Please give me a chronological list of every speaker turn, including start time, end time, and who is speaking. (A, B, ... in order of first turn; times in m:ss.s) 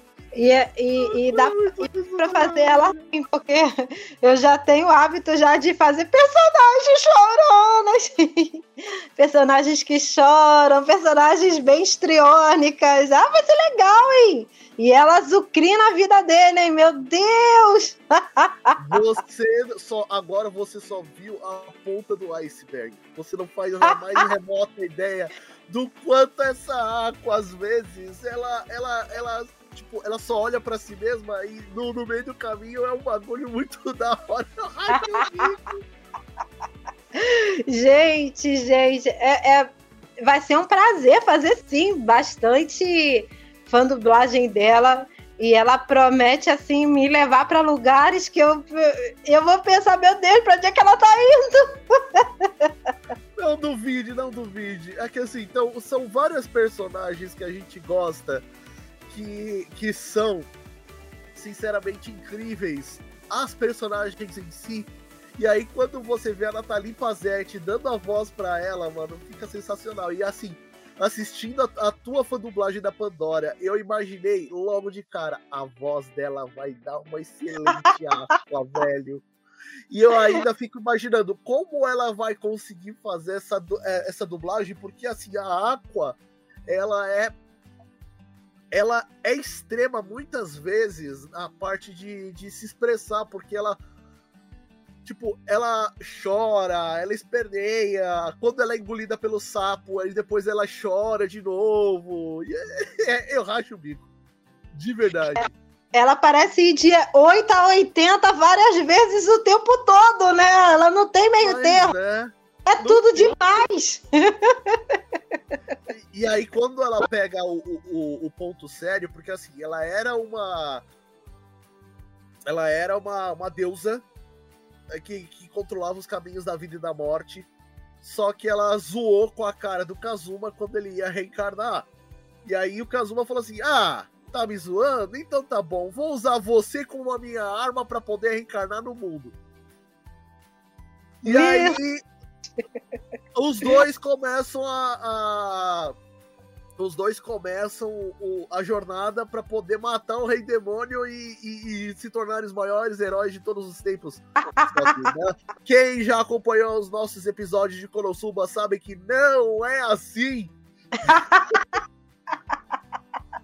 0:00.3-0:08.6 A
0:01.0-0:03.0 B
0:09.2-0:19.0 A
0:18.8-0:35.8 B
0:34.9-0:35.5 A
0:37.2-0:52.7 A
0:53.4-0:58.5 B
0:59.1-1:00.5 B
1:01.4-1:19.2 B
1:19.9-1:27.4 B
1:28.7-1:33.8 B
1:35.0-1:44.1 B
1:44.7-1:45.5 B
1:45.4-1:51.9 A
1:51.4-1:53.4 B
1:52.7-1:55.0 A
1:55.9-2:00.8 B
2:02.5-2:04.0 B
2:04.9-2:07.5 B
2:08.0-2:11.9 B
2:12.4-2:19.4 B
2:21.2-2:22.0 B
2:21.2-2:21.8 A
2:23.4-2:26.0 B
2:26.8-2:40.5 B
2:34.6-2:35.1 A
2:41.0-2:41.8 A